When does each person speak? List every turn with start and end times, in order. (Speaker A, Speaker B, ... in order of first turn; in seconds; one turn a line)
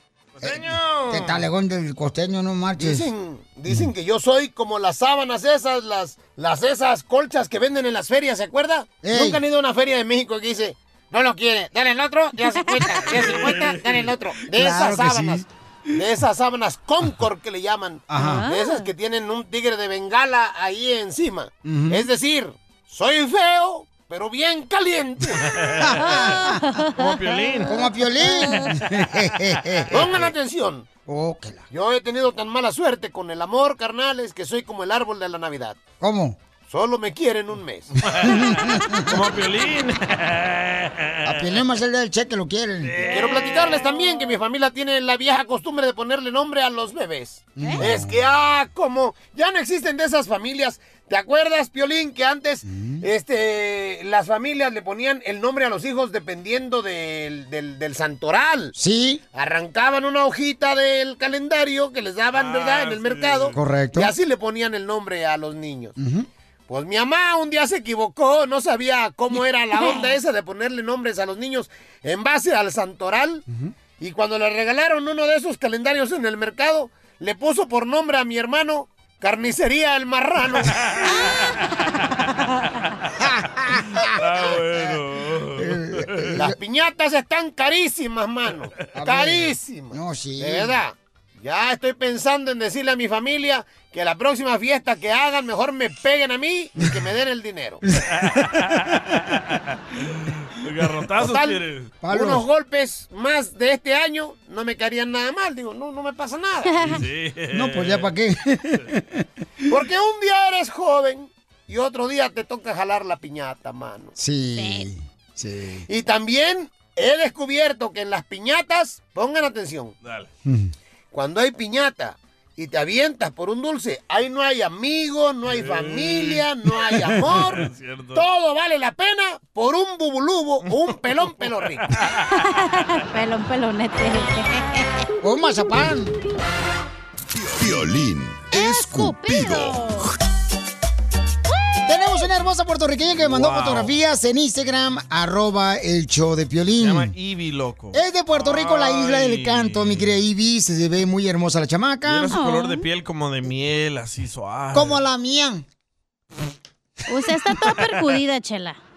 Speaker A: 0.4-1.4
Speaker B: 0.4-3.1
Speaker C: 2.8-25.4
Speaker B: 9.0-9.4
Speaker A: 13.1-13.9
Speaker B: 14.5-15.4
Speaker B: 18.1-18.5
Speaker D: 18.2-18.9
Speaker B: 21.6-22.1
Speaker A: 25.3-26.4
Speaker B: 25.8-26.8
Speaker D: 26.0-26.9
Speaker A: 27.0-27.8
Speaker B: 27.6-30.1
Speaker D: 28.2-28.7
Speaker A: 29.8-30.3
Speaker C: 29.9-30.9
Speaker B: 31.1-31.6
Speaker C: 31.7-35.8
Speaker B: 36.0-36.4
Speaker C: 36.6-37.9
Speaker A: 38.0-41.4
Speaker B: 38.2-39.2
Speaker B: 41.2-43.0
Speaker A: 42.8-43.7
Speaker C: 43.1-58.7
Speaker B: 47.6-48.2
Speaker B: 52.6-53.0
Speaker B: 58.8-59.2
Speaker C: 59.3-66.0
Speaker A: 62.3-63.6
Speaker B: 63.5-64.1
Speaker B: 66.0-66.3
Speaker C: 66.7-73.4
Speaker C: 74.0-80.8
Speaker A: 80.8-81.6
Speaker D: 81.1-81.4
Speaker B: 83.2-85.0
Speaker A: 84.0-86.3
Speaker B: 85.6-86.6
Speaker C: 86.4-97.8
Speaker B: 89.0-90.8
Speaker A: 98.0-101.9
Speaker C: 101.2-106.9
Speaker B: 102.0-102.5
Speaker D: 106.7-107.0
Speaker A: 106.8-108.1
Speaker B: 107.5-109.2
Speaker C: 109.7-114.2
Speaker B: 114.2-115.9
Speaker D: 114.6-114.9
Speaker C: 115.9-120.0
Speaker A: 120.0-120.3
Speaker B: 120.5-120.7
Speaker C: 121.1-131.8
Speaker A: 125.5-126.5
Speaker A: 127.0-128.2
Speaker A: 130.6-131.0
Speaker A: 131.9-132.3
Speaker D: 132.3-134.9
Speaker B: 135.2-136.1
Speaker E: 137.3-139.9
Speaker D: 138.5-140.1
Speaker B: 141.9-147.1
Speaker A: 143.3-143.9
Speaker A: 146.8-150.2
Speaker B: 147.9-152.3
Speaker A: 152.1-155.0
Speaker D: 152.3-152.8
Speaker B: 154.7-155.7
Speaker D: 157.1-158.8